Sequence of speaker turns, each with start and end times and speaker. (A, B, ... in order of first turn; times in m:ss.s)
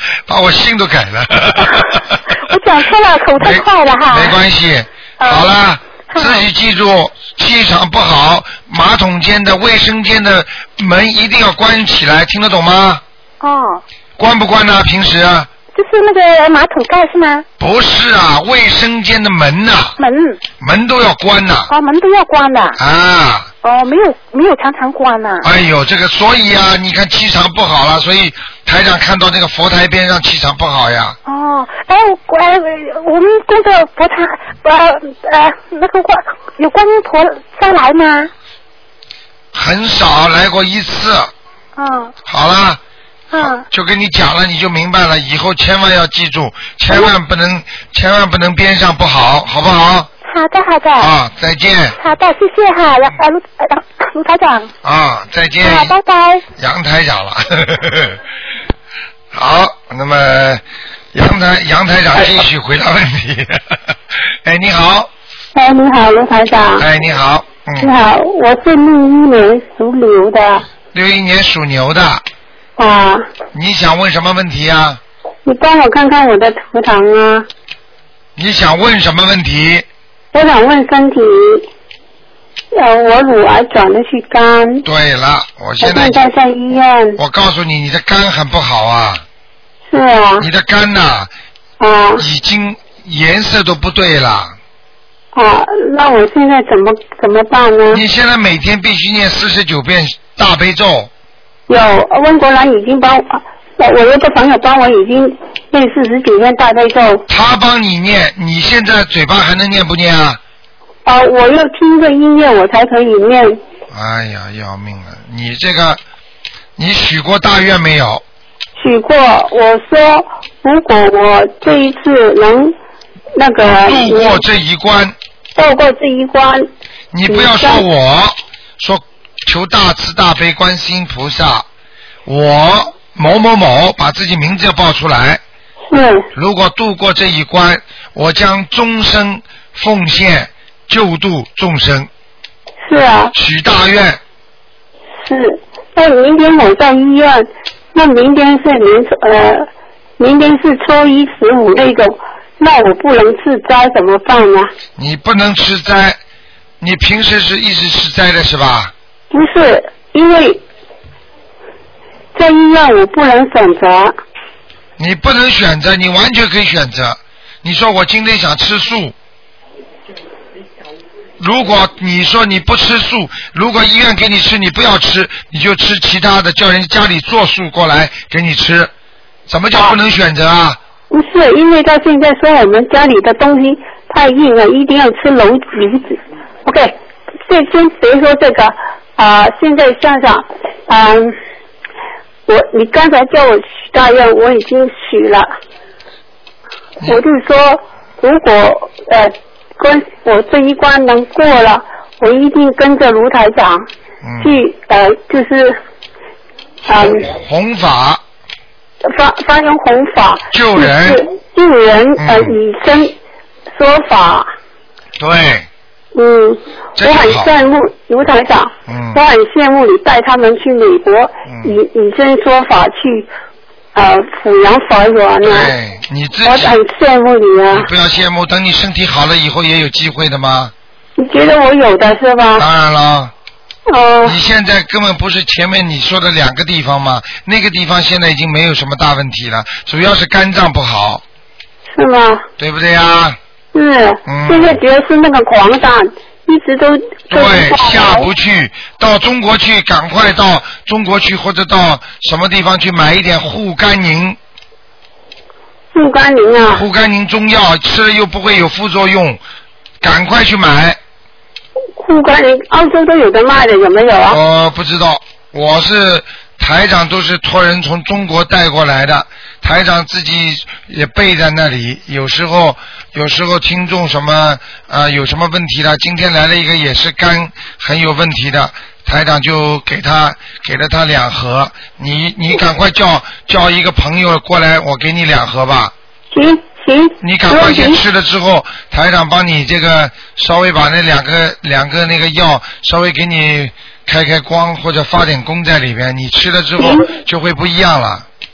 0:00.3-0:02.2 A
0:02.4-0:04.4 B
0:03.4-0:13.0 A
0:05.2-0:05.5 B
0:06.1-0:06.4 B
0:13.4-0:13.8 B
0:14.2-0:15.5 A
0:15.7-0:17.4 B
0:17.6-0:20.0 A
0:20.0-0:20.4 B
0:20.6-0:21.7 A
0:21.7-0:22.8 B
0:22.8-0:23.5 A
0:23.6-0:25.5 B
0:25.4-0:31.2 A
0:31.2-0:38.3 B
0:39.5-0:41.3 A
0:41.8-0:42.1 B
0:42.3-0:42.8 A
0:43.3-0:43.6 B
0:43.4-0:50.1 A
0:50.2-0:51.1 B
0:51.0-0:52.0 A
0:52.0-0:54.7 B
0:54.8-0:55.9 A
0:55.6-0:56.4 B
0:56.6-0:58.2 A
0:59.3-1:00.6 A
1:01.1-1:05.1 A
1:05.5-1:06.8 C
1:06.8-1:07.9 A
1:07.8-1:10.6 C
1:10.9-1:12.2 A
1:12.8-1:13.3 C
1:13.5-1:15.0 A
1:15.4-1:17.5 C
1:18.4-1:19.8 A
1:20.3-1:21.6 C
1:22.7-1:24.8 C
1:24.8-1:26.2 A
1:25.8-1:27.2 C
1:27.2-1:29.2 A
1:29.9-1:30.4 C
1:30.4-1:31.3 A
1:31.8-1:32.2 C
1:32.2-1:34.6 A
1:35.3-1:38.0 C
1:37.9-1:41.1 A
1:41.7-1:47.2 C
1:47.3-1:50.4 A
1:51.0-1:53.6 C
1:53.9-1:56.0 A
1:56.8-1:58.2 A
1:58.8-2:02.8 C
2:03.4-2:04.4 C
2:03.8-2:05.2 A
2:05.6-2:06.7 C
2:07.1-2:11.6 A
2:07.3-2:07.8 C
2:12.2-2:15.4 A
2:15.9-2:16.3 C
2:16.3-2:22.1 A
2:22.8-2:23.3 C
2:23.3-2:24.2 A
2:25.2-2:29.7 C
2:30.2-2:34.7 C
2:35.0-2:36.2 A
2:36.8-2:38.9 A
2:39.3-2:40.6 C
2:42.3-2:44.1 C
2:45.0-2:49.1 A
2:51.4-2:58.9 A
2:59.5-3:00.8 A
3:01.1-3:07.0 C
3:07.5-3:11.3 C
3:12.5-3:15.5 C
3:17.0-3:23.9 C
3:24.2-3:24.6 A
3:24.4-3:25.8 C
3:26.9-3:27.2 C
3:26.9-3:28.2 A
3:29.0-3:33.1 C
3:30.5-3:31.2 A
3:32.2-3:32.6 A
3:33.7-3:34.5 C
3:35.2-3:35.7 A
3:36.1-3:43.3 C
3:37.0-3:37.5 A
3:38.9-3:39.2 A
3:41.4-3:41.8 A
3:43.9-3:45.7 C
3:45.4-3:46.8 A
3:46.4-3:47.9 C
3:47.7-3:50.7 A
3:51.2-3:52.6 C
3:52.6-3:53.3 A
3:53.9-3:54.4 C
3:54.2-4:01.2 A
4:01.9-4:02.4 C
4:02.6-4:03.4 A
4:03.7-4:08.3 C
4:04.2-4:04.8 A
4:07.3-4:14.4 A
4:15.9-4:16.8 C
4:16.7-4:19.4 A
4:20.0-4:21.0 A
4:22.0-4:24.4 C
4:24.3-4:45.9 A
4:46.3-4:48.0 C
4:47.2-4:58.2 A
4:56.8-4:57.1 C